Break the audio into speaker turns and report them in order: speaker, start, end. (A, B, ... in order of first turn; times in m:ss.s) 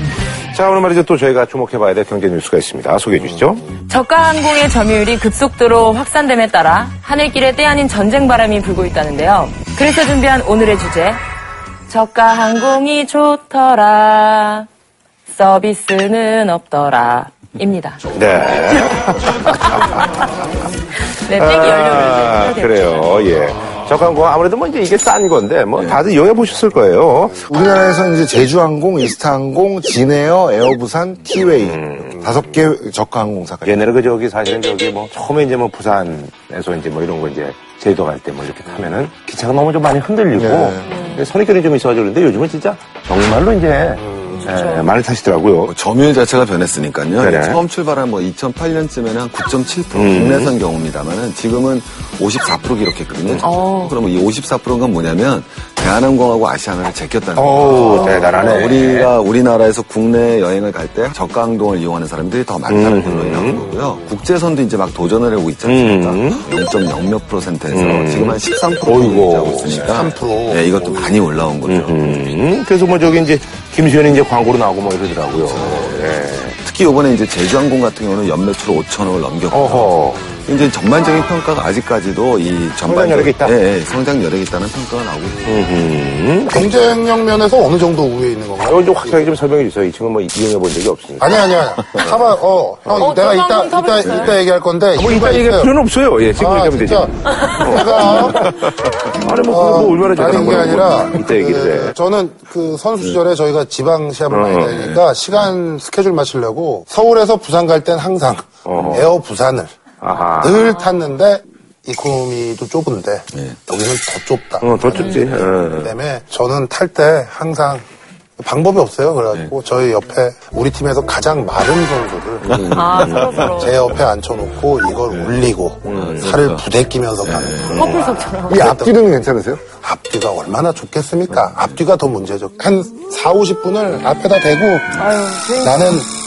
0:00.5-0:03.6 A
0:03.9-0:11.2 B
0:11.9-0:14.7 B
0:15.3-0:18.0 B
0:18.0-0:19.2 C
0:18.1-0:20.0 A
0:18.7-0:20.1 B
0:21.2-0:23.3 B
0:21.3-0:27.5 A
0:25.7-0:26.0 C
0:27.4-0:33.8 D
0:31.3-0:32.2 A
0:33.6-0:45.7 A
0:40.3-0:40.9 D
0:40.8-0:41.2 B
0:44.0-0:44.4 E
0:44.4-0:44.9 B
0:45.6-0:57.9 C
0:47.2-0:47.6 A
0:49.9-0:50.5 A
0:53.4-0:54.0 B
0:57.4-0:59.1 A
0:57.7-0:58.6 B
0:57.9-0:58.4 E
0:58.4-1:12.1 C
1:02.7-1:03.6 A
1:03.6-1:04.0 E
1:05.6-1:06.4 A
1:07.7-1:10.0 A
1:09.6-1:11.2 E
1:11.6-1:16.6 A
1:15.3-1:25.7 C
1:19.5-1:20.2 A
1:20.2-1:20.4 E
1:22.8-1:23.6 A
1:25.4-1:26.6 A
1:26.5-1:29.2 E
1:28.6-1:31.4 A
1:31.2-1:35.8 E
1:31.8-1:32.1 C
1:32.9-1:34.4 B
1:34.0-1:34.4 C
1:35.0-1:42.0 A
1:36.4-1:38.6 E
1:39.4-1:49.7 E
1:44.3-1:45.0 A
1:48.6-1:49.1 A
1:50.0-1:50.8 A
1:50.4-1:57.8 E
1:53.3-1:53.6 C
1:54.6-1:55.9 A
1:54.9-1:55.2 B
1:58.4-2:09.0 E
2:02.4-2:03.6 A
2:02.5-2:04.0 C
2:02.6-2:03.9 B
2:05.0-2:06.7 C
2:05.8-2:06.3 A
2:07.2-2:08.2 C
2:07.7-2:08.7 B
2:08.5-2:09.6 D
2:09.7-2:15.0 E
2:15.0-2:16.0 B
2:15.6-2:16.1 E